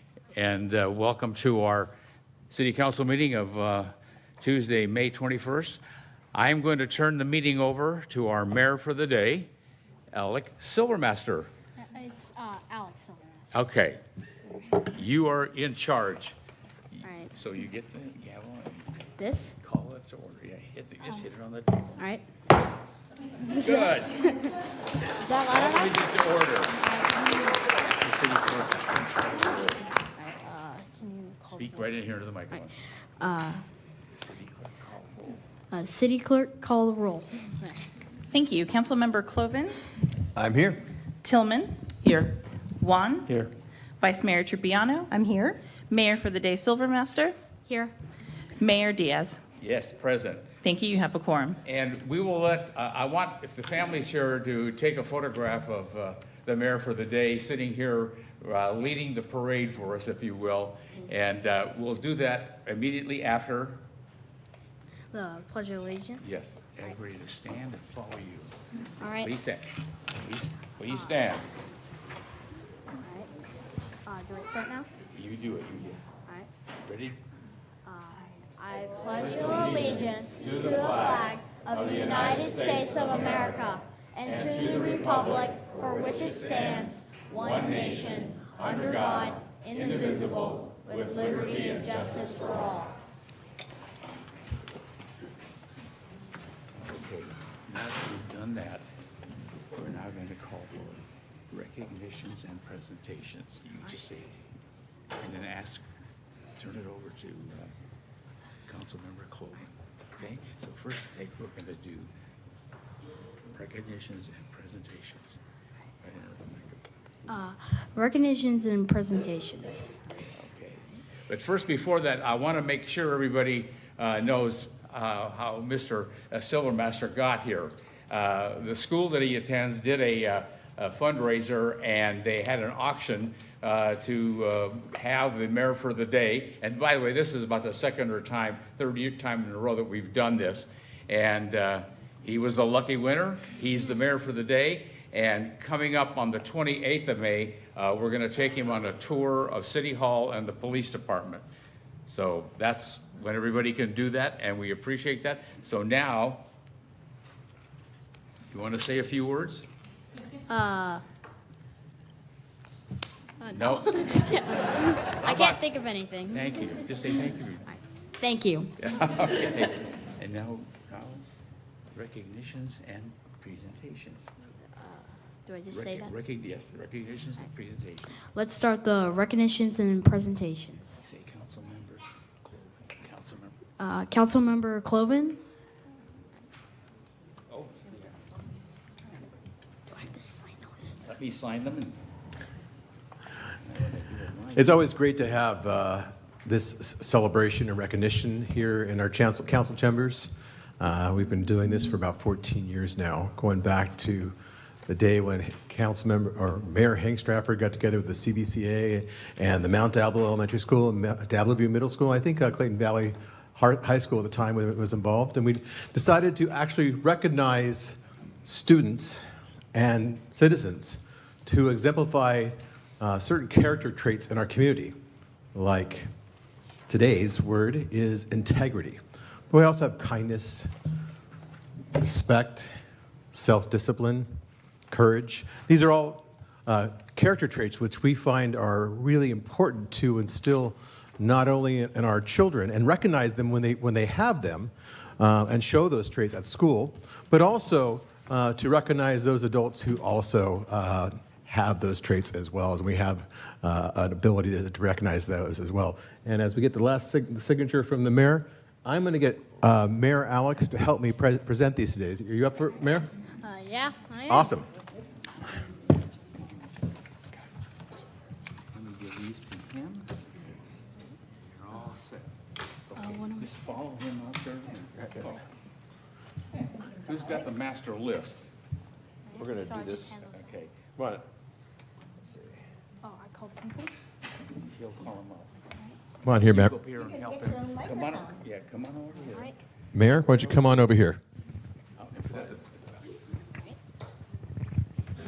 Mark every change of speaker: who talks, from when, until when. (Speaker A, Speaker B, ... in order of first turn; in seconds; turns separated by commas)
Speaker A: 0.3-1.9, Speaker A: 2.5-5.8, Speaker A: 6.3-9.5, Speaker A: 10.1-11.5, Speaker B: 11.8-13.4, Speaker A: 13.5-14.0, Speaker A: 14.7-16.4, Speaker A: 16.9-19.0, Speaker B: 17.0-17.3, Speaker B: 19.2-19.5, Speaker A: 19.6-21.9, Speaker B: 22.0-22.2, Speaker B: 23.4-24.5, Speaker A: 23.5-24.4, Speaker B: 25.2-26.0, Speaker A: 25.5-26.8, Speaker B: 26.8-27.6, Speaker A: 27.6-29.8, Speaker B: 30.1-31.9, Speaker A: 31.5-32.7, Speaker B: 33.2-33.6, Speaker A: 34.1-35.4, Speaker B: 35.7-37.8, Speaker C: 38.3-39.8, Speaker D: 40.3-40.8, Speaker C: 41.2-43.3, Speaker C: 44.0-47.4, Speaker B: 47.7-47.9, Speaker C: 48.6-49.4, Speaker A: 49.6-50.5, Speaker C: 50.6-51.6, Speaker A: 51.6-63.8, Speaker B: 65.1-66.3, Speaker A: 66.2-68.5, Speaker B: 69.0-69.3, Speaker A: 69.0-71.5, Speaker B: 73.0-73.3, Speaker B: 74.0-74.9, Speaker A: 75.1-76.0, Speaker A: 76.8-77.2, Speaker B: 77.8-92.9, Speaker A: 79.2-83.6, Speaker A: 84.2-92.5, Speaker A: 96.8-98.9, Speaker A: 99.7-104.3, Speaker A: 105.2-105.9, Speaker A: 106.5-107.7, Speaker A: 108.7-112.1, Speaker A: 113.5-115.4, Speaker A: 116.0-116.8, Speaker B: 117.3-120.0, Speaker A: 120.3-151.4, Speaker A: 152.1-156.4, Speaker A: 158.5-159.7, Speaker B: 160.5-161.0, Speaker B: 163.4-166.5, Speaker A: 163.5-165.6, Speaker A: 166.3-167.7, Speaker B: 168.2-168.7, Speaker A: 168.8-171.2, Speaker A: 171.9-174.3, Speaker B: 175.4-176.1, Speaker A: 175.7-178.2, Speaker B: 178.3-181.0, Speaker A: 181.0-183.6, Speaker B: 183.8-185.4, Speaker A: 187.5-188.0, Speaker B: 189.9-190.9, Speaker A: 191.0-192.0, Speaker A: 193.6-194.8, Speaker D: 194.5-204.3, Speaker D: 204.9-219.2, Speaker D: 219.7-224.9, Speaker D: 225.5-226.1, Speaker D: 226.9-230.7, Speaker D: 231.9-232.7, Speaker D: 233.3-234.3, Speaker D: 234.9-263.1, Speaker B: 263.4-264.5, Speaker D: 264.3-264.7, Speaker A: 268.7-270.1, Speaker A: 271.4-272.3, Speaker A: 272.9-275.4, Speaker B: 272.9-273.5, Speaker A: 276.9-278.4, Speaker B: 279.3-280.4, Speaker D: 279.4-280.2, Speaker A: 280.3-280.8, Speaker D: 281.0-281.2, Speaker D: 282.2-282.6, Speaker B: 283.0-283.9, Speaker A: 284.6-285.5, Speaker D: 286.2-286.7, Speaker A: 286.5-289.5, Speaker D: 289.9-291.2, Speaker A: 292.0-292.8